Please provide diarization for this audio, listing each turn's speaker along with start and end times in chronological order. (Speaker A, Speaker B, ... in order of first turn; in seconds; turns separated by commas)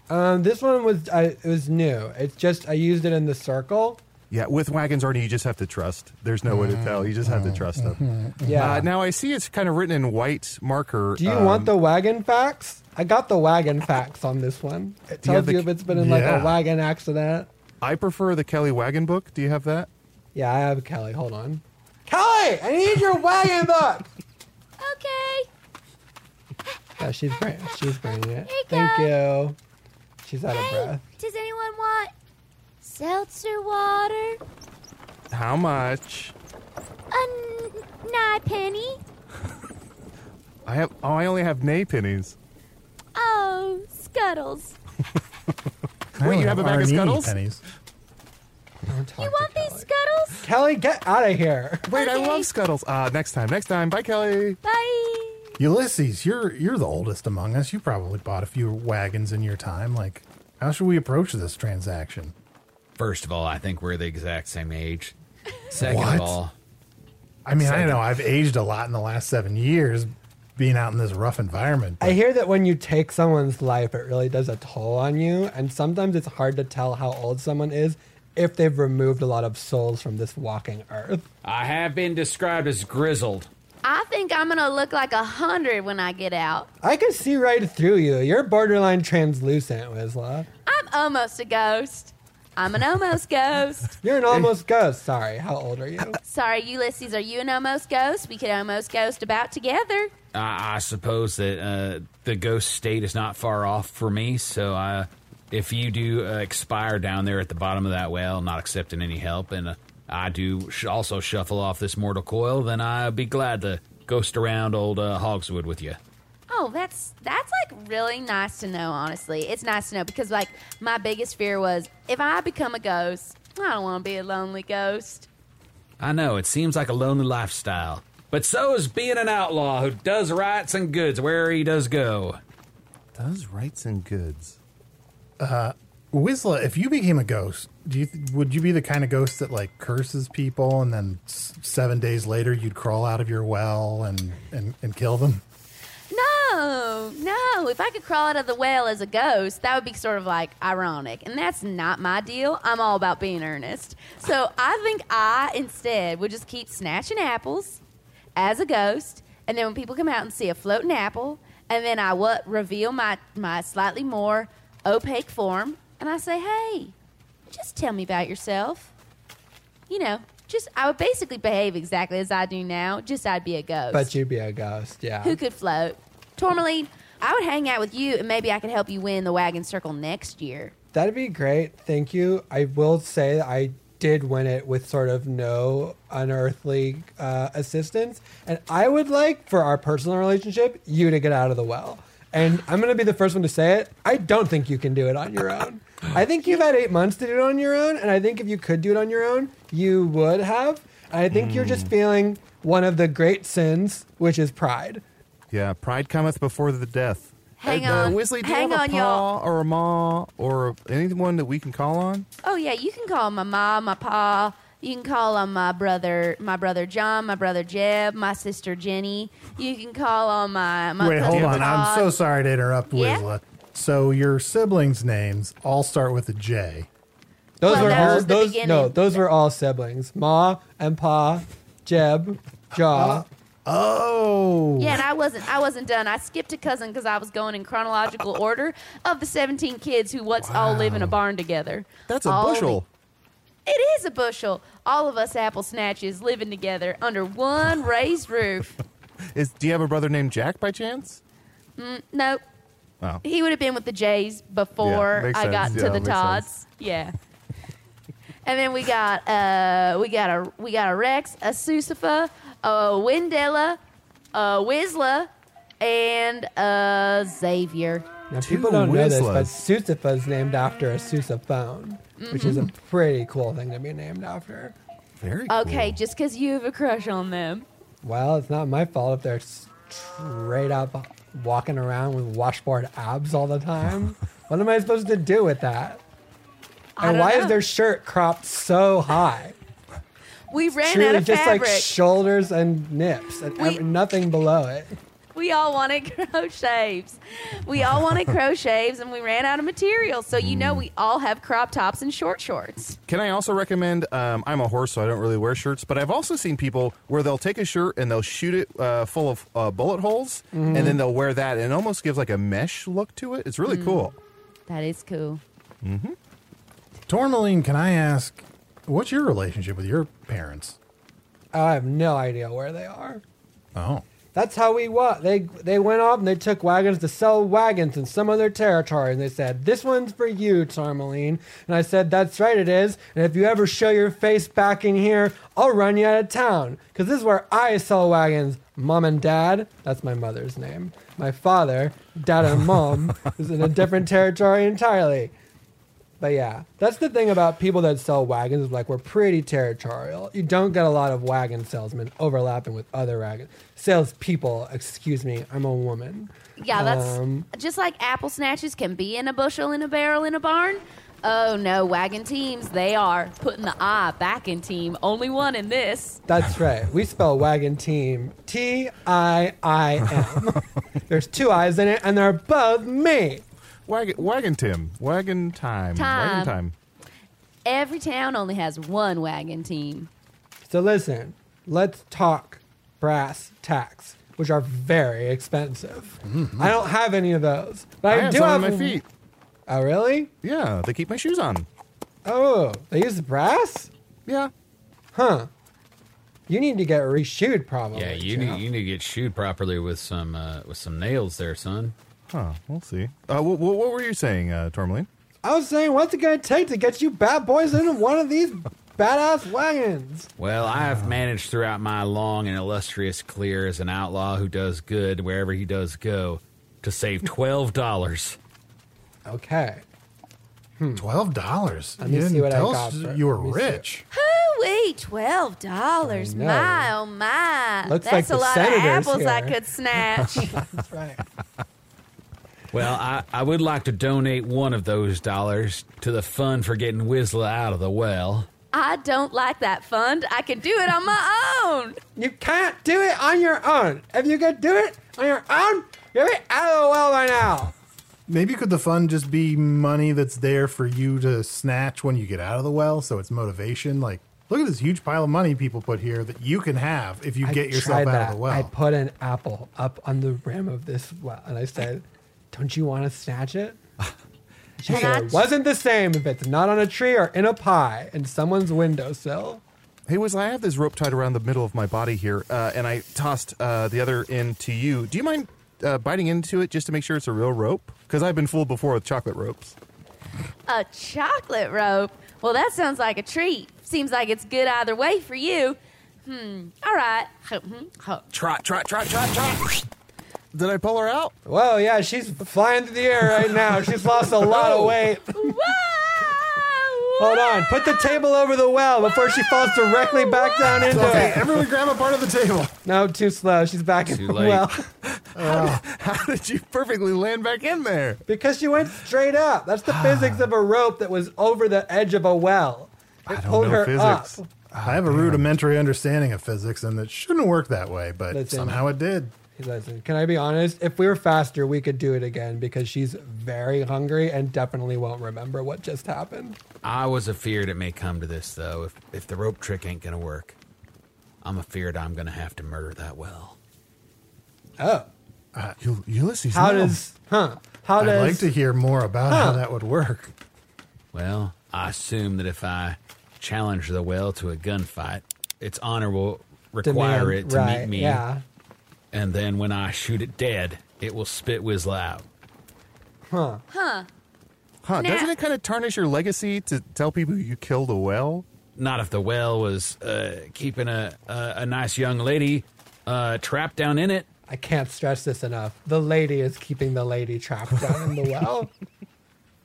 Speaker A: 0.1-4.0, Speaker B: 4.3-8.0, Speaker C: 6.5-8.9, Speaker A: 8.4-8.8, Speaker B: 8.5-11.7, Speaker A: 11.2-17.5, Speaker B: 15.2-15.7, Speaker C: 15.9-16.6, Speaker B: 17.8-19.9, Speaker A: 20.3-24.1, Speaker D: 24.8-25.5, Speaker A: 27.0-29.6, Speaker D: 28.5-29.1, Speaker A: 30.2-31.0, Speaker D: 30.5-32.1, Speaker D: 32.8-34.4, Speaker B: 35.3-36.3, Speaker D: 37.1-39.0, Speaker B: 40.6-42.4, Speaker D: 43.1-44.8, Speaker B: 46.2-47.3, Speaker C: 46.2-47.6, Speaker A: 48.9-49.9, Speaker D: 49.2-50.4, Speaker A: 50.4-51.9, Speaker B: 51.9-54.6, Speaker D: 51.9-52.5, Speaker D: 54.6-55.6, Speaker C: 55.6-62.3, Speaker E: 63.0-65.1, Speaker E: 65.7-66.5, Speaker C: 65.8-66.4, Speaker C: 67.4-72.2, Speaker E: 67.6-68.0, Speaker A: 72.0-81.2, Speaker E: 81.4-83.5, Speaker D: 83.8-86.7, Speaker A: 86.8-90.5, Speaker D: 90.7-94.0, Speaker A: 94.0-96.2, Speaker D: 96.2-100.1, Speaker E: 100.3-116.0, Speaker D: 116.5-125.3, Speaker E: 126.0-132.4, Speaker B: 133.1-134.6, Speaker C: 135.4-145.4, Speaker D: 146.1-157.8, Speaker D: 158.3-166.9, Speaker D: 167.5-168.9, Speaker D: 169.9-174.1, Speaker A: 173.9-175.4, Speaker D: 175.2-180.7, Speaker A: 180.9-205.0, Speaker B: 201.3-201.9, Speaker B: 205.5-212.2, Speaker D: 207.6-209.3, Speaker D: 212.4-222.1, Speaker C: 221.0-226.9, Speaker B: 221.3-221.8, Speaker D: 222.9-223.2, Speaker A: 227.6-233.2, Speaker D: 227.6-229.2, Speaker C: 227.7-228.3, Speaker C: 232.7-235.0, Speaker D: 234.8-242.8, Speaker B: 240.4-241.2, Speaker B: 242.1-242.8, Speaker D: 243.7-248.8, Speaker B: 249.3-251.2, Speaker D: 251.8-252.4, Speaker D: 253.2-257.1, Speaker B: 254.8-256.4, Speaker D: 258.4-263.8, Speaker D: 264.3-265.3, Speaker D: 265.8-268.1, Speaker A: 268.3-274.7, Speaker B: 268.4-269.5, Speaker D: 272.2-272.7, Speaker B: 275.2-276.0, Speaker D: 275.5-277.6, Speaker A: 278.0-286.0, Speaker D: 287.0-287.6, Speaker A: 287.0-289.5, Speaker D: 290.5-291.9, Speaker A: 290.8-294.9, Speaker D: 295.3-303.0, Speaker B: 300.3-300.9, Speaker B: 303.1-314.2, Speaker A: 310.5-311.0, Speaker D: 313.6-314.1, Speaker D: 314.7-315.4, Speaker B: 315.8-316.1, Speaker C: 317.1-320.8, Speaker A: 321.5-323.2, Speaker C: 323.7-324.1, Speaker A: 324.3-345.3, Speaker A: 346.2-357.5, Speaker D: 356.6-366.2, Speaker A: 366.3-373.4, Speaker B: 373.9-376.7, Speaker D: 375.9-376.6, Speaker D: 377.6-380.1, Speaker A: 380.7-389.0, Speaker C: 386.2-386.8, Speaker B: 388.1-389.0, Speaker A: 389.7-390.3, Speaker B: 390.4-391.7, Speaker A: 392.2-393.9, Speaker B: 394.2-394.5, Speaker A: 395.1-395.5, Speaker A: 396.5-398.6, Speaker E: 397.9-401.9, Speaker B: 402.3-405.1, Speaker A: 405.4-410.3, Speaker E: 410.4-418.4, Speaker B: 410.8-411.1, Speaker A: 419.2-419.8, Speaker A: 420.8-421.0, Speaker C: 420.9-424.0, Speaker A: 422.0-423.8, Speaker D: 424.1-430.5, Speaker A: 426.0-426.9, Speaker A: 427.9-429.6, Speaker A: 430.4-431.2, Speaker E: 432.7-438.5, Speaker D: 438.7-442.0, Speaker A: 442.1-447.7, Speaker C: 448.3-458.7, Speaker A: 457.4-463.8, Speaker A: 464.8-469.6, Speaker D: 464.9-465.4, Speaker B: 464.9-465.3, Speaker B: 470.1-479.8, Speaker D: 480.7-488.2, Speaker B: 488.3-489.9, Speaker B: 490.5-491.3, Speaker A: 491.4-495.6, Speaker D: 495.3-498.1, Speaker A: 497.2-501.4, Speaker D: 499.0-500.8, Speaker B: 500.8-501.4, Speaker C: 500.8-502.8, Speaker A: 502.8-504.9, Speaker E: 504.1-504.7, Speaker B: 505.0-508.2, Speaker C: 505.3-505.8, Speaker A: 508.3-514.5, Speaker B: 509.8-510.5, Speaker B: 513.3-515.5, Speaker C: 514.8-519.3, Speaker A: 518.3-518.8, Speaker A: 519.5-526.6, Speaker E: 526.8-530.5, Speaker E: 531.4-533.6, Speaker A: 534.8-535.1, Speaker B: 535.8-537.0, Speaker A: 536.5-538.5, Speaker C: 538.0-540.3, Speaker A: 539.3-539.6, Speaker E: 541.1-548.2, Speaker A: 546.8-548.4, Speaker E: 549.1-552.2, Speaker A: 553.3-553.6, Speaker D: 553.7-554.1, Speaker B: 554.8-558.5, Speaker D: 555.0-555.3, Speaker E: 558.8-564.3, Speaker A: 564.5-568.7